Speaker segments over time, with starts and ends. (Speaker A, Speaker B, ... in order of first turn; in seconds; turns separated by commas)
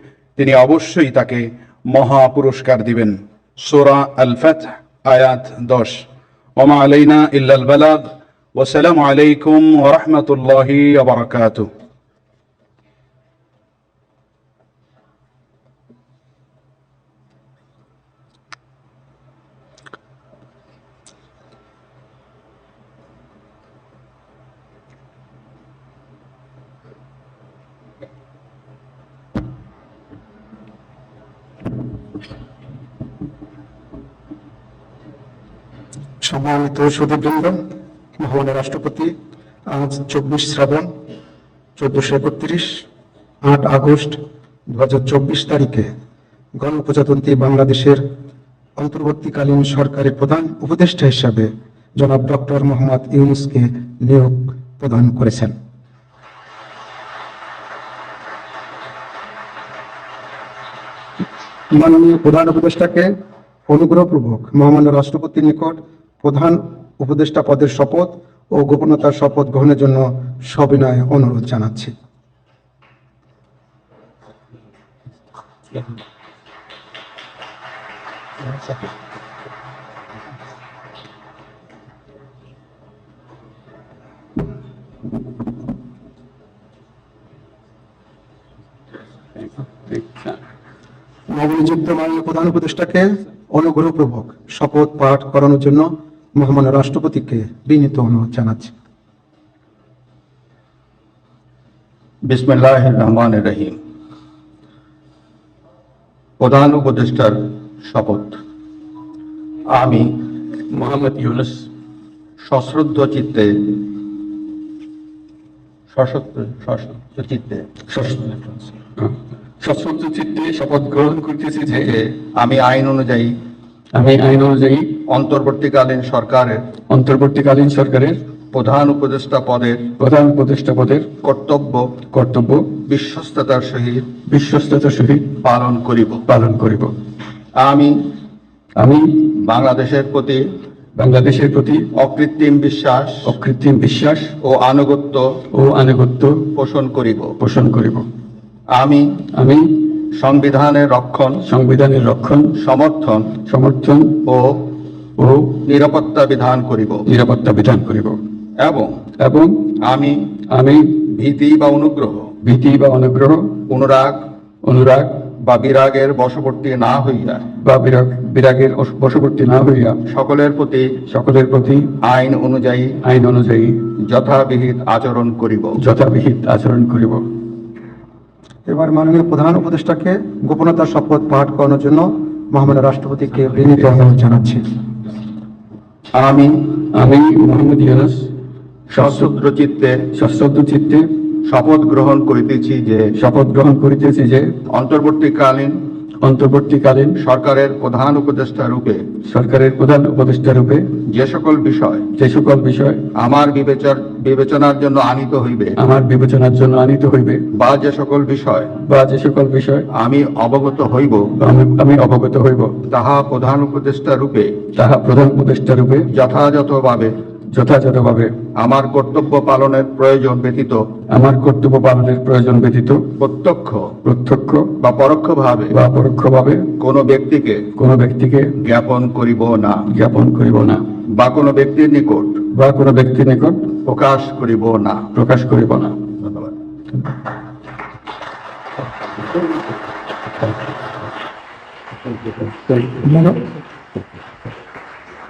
Speaker A: 0.4-6.0, Speaker A: 6.6-11.7, Speaker B: 36.2-37.6, Speaker B: 38.2-39.1, Speaker B: 39.7-40.9, Speaker B: 41.8-42.8, Speaker B: 43.5-45.9, Speaker B: 46.6-48.0, Speaker B: 48.8-55.5, Speaker B: 61.7-63.1, Speaker B: 63.7-71.9, Speaker C: 89.4-90.4, Speaker B: 91.3-98.7, Speaker D: 102.3-103.8, Speaker D: 106.4-108.4, Speaker D: 109.7-110.2, Speaker C: 110.7-111.7, Speaker D: 112.4-113.9, Speaker D: 115.9-117.7, Speaker C: 117.9-122.0, Speaker D: 121.8-123.3, Speaker C: 123.9-125.0, Speaker D: 125.1-126.6, Speaker C: 126.9-128.2, Speaker D: 128.5-129.9, Speaker C: 130.0-131.1, Speaker D: 131.2-131.9, Speaker C: 132.1-132.8, Speaker D: 132.8-134.1, Speaker C: 134.3-135.3, Speaker D: 135.4-136.2, Speaker C: 136.3-136.9, Speaker D: 137.6-138.1, Speaker C: 138.8-139.2, Speaker D: 139.3-140.4, Speaker C: 141.0-141.8, Speaker D: 141.9-143.3, Speaker C: 143.2-144.3, Speaker D: 144.4-145.3, Speaker C: 145.5-146.5, Speaker D: 146.5-147.3, Speaker C: 147.4-148.1, Speaker D: 148.7-149.2, Speaker C: 149.3-150.0, Speaker D: 150.0-151.4, Speaker C: 151.4-152.5, Speaker D: 152.5-153.4, Speaker C: 153.4-154.2, Speaker D: 154.2-154.7, Speaker C: 155.2-155.6, Speaker D: 155.6-157.0, Speaker C: 157.1-158.2, Speaker D: 158.6-159.0, Speaker C: 159.2-159.7, Speaker D: 159.8-160.2, Speaker C: 160.5-161.0, Speaker D: 161.0-162.3, Speaker C: 162.4-163.6, Speaker D: 163.7-164.2, Speaker C: 164.7-165.2, Speaker D: 165.4-167.5, Speaker C: 167.6-169.9, Speaker D: 170.1-170.9, Speaker C: 171.1-171.9, Speaker D: 172.0-173.0, Speaker C: 173.0-173.8, Speaker D: 174.0-175.8, Speaker C: 175.8-177.2, Speaker B: 178.7-184.6, Speaker D: 186.2-186.7, Speaker C: 186.8-188.3, Speaker D: 188.9-190.0, Speaker C: 188.9-189.3, Speaker C: 190.1-191.1, Speaker D: 191.4-193.1, Speaker C: 193.1-194.5, Speaker D: 194.7-195.7, Speaker C: 196.2-197.1, Speaker D: 197.2-199.1, Speaker C: 199.2-200.8, Speaker D: 201.1-202.1, Speaker C: 202.1-203.0, Speaker D: 203.2-205.7, Speaker C: 205.8-207.4, Speaker D: 207.6-208.7, Speaker C: 208.8-209.8, Speaker D: 209.9-211.3, Speaker C: 211.4-212.7, Speaker D: 212.9-214.6, Speaker C: 214.7-216.1, Speaker D: 216.1-217.1, Speaker C: 217.5-218.3, Speaker D: 218.6-220.8, Speaker C: 221.1-223.0, Speaker D: 223.2-223.9, Speaker C: 224.0-224.7, Speaker D: 224.8-225.7, Speaker C: 225.7-226.7, Speaker D: 226.8-227.7, Speaker C: 227.7-228.5, Speaker D: 228.6-229.8, Speaker C: 229.9-230.8, Speaker D: 231.2-232.4, Speaker C: 232.5-233.7, Speaker D: 233.8-235.1, Speaker C: 235.1-236.0, Speaker D: 236.2-236.5, Speaker B: 243.0-243.4